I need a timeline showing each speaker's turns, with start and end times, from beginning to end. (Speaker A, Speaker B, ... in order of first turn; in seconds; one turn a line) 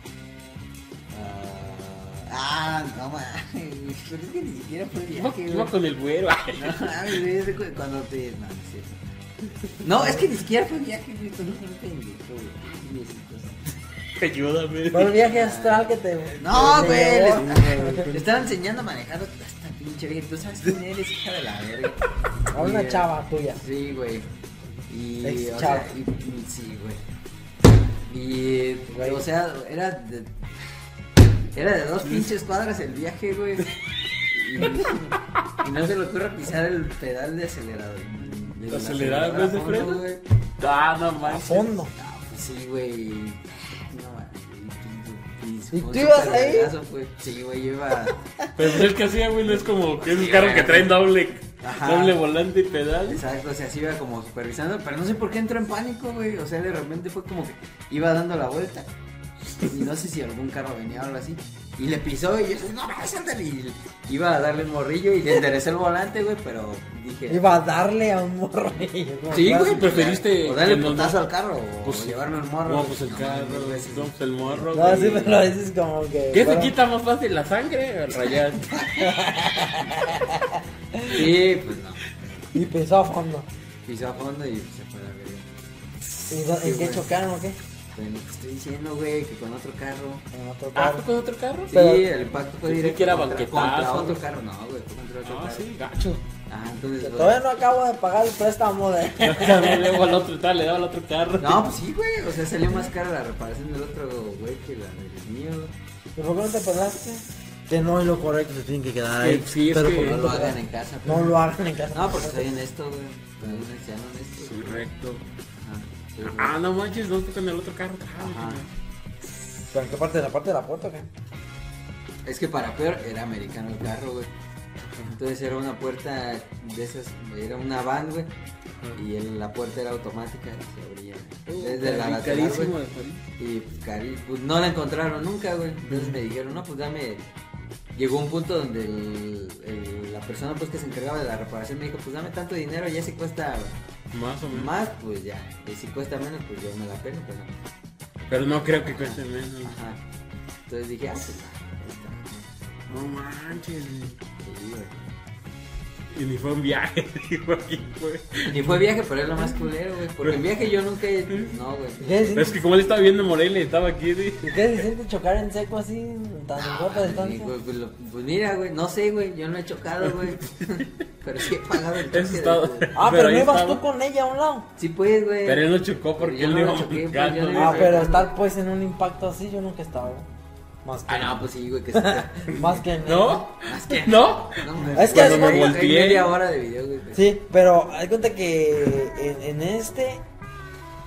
Speaker A: 1.1-5.7
Speaker B: 5.1-7.2
Speaker A: 6.5-8.9
Speaker A: 9.8-13.6
Speaker B: 14.2-15.2
Speaker C: 14.9-18.1
Speaker A: 15.2-22.0
Speaker B: 16.7-18.4
Speaker C: 22.5-23.6
Speaker A: 22.5-24.3
Speaker A: 24.9-27.0
Speaker C: 25.2-25.9
Speaker A: 28.0-30.4
Speaker C: 28.9-29.2
Speaker A: 31.5-33.7
Speaker A: 34.3-40.2
Speaker B: 38.7-40.0
Speaker B: 40.6-41.7
Speaker C: 41.2-41.9
Speaker A: 41.9-48.8
Speaker C: 45.7-46.7
Speaker B: 48.5-53.2
Speaker A: 50.0-50.9
Speaker A: 51.6-52.2
Speaker A: 53.1-58.9
Speaker A: 59.6-67.5
Speaker C: 67.3-69.8
Speaker A: 69.3-74.7
Speaker B: 69.5-71.3
Speaker B: 71.8-75.4
Speaker C: 74.7-76.7
Speaker B: 76.3-79.1
Speaker C: 79.0-81.2
Speaker A: 81.1-82.2
Speaker C: 82.5-83.5
Speaker A: 83.8-85.6
Speaker C: 86.3-87.6
Speaker A: 86.6-87.1
Speaker A: 87.9-90.2
Speaker C: 90.3-91.1
Speaker B: 90.7-91.7
Speaker A: 91.7-95.7
Speaker C: 91.7-92.1
Speaker B: 92.7-94.2
Speaker B: 95.2-96.2
Speaker A: 96.5-97.4
Speaker C: 97.0-100.0
Speaker B: 99.2-101.7
Speaker A: 101.4-105.7
Speaker C: 106.2-112.5
Speaker B: 109.2-110.3
Speaker A: 109.9-111.4
Speaker A: 111.9-114.8
Speaker B: 114.5-115.2
Speaker A: 115.6-116.5
Speaker B: 116.2-118.7
Speaker A: 118.2-118.6
Speaker C: 119.7-121.1
Speaker A: 122.2-124.3
Speaker B: 124.8-125.2
Speaker A: 125.1-128.3
Speaker A: 128.9-132.8
Speaker B: 131.5-133.2
Speaker A: 133.4-137.2
Speaker B: 135.9-136.2
Speaker A: 137.9-143.8
Speaker B: 144.1-144.7
Speaker A: 144.5-147.5
Speaker B: 148.3-149.8
Speaker A: 148.8-150.0
Speaker A: 150.7-152.3
Speaker B: 152.9-154.2
Speaker A: 154.4-155.0
Speaker B: 156.1-158.7
Speaker A: 158.4-162.2
Speaker B: 160.2-160.4
Speaker C: 162.0-162.7
Speaker B: 162.3-164.6
Speaker C: 164.4-167.5
Speaker A: 166.5-173.0
Speaker B: 172.0-173.8
Speaker C: 172.9-174.7
Speaker A: 174.8-178.3
Speaker B: 175.4-178.0
Speaker C: 177.5-180.2
Speaker C: 180.8-183.5
Speaker A: 181.1-182.9
Speaker B: 183.0-186.3
Speaker A: 183.6-187.3
Speaker C: 184.9-185.8
Speaker C: 187.1-190.2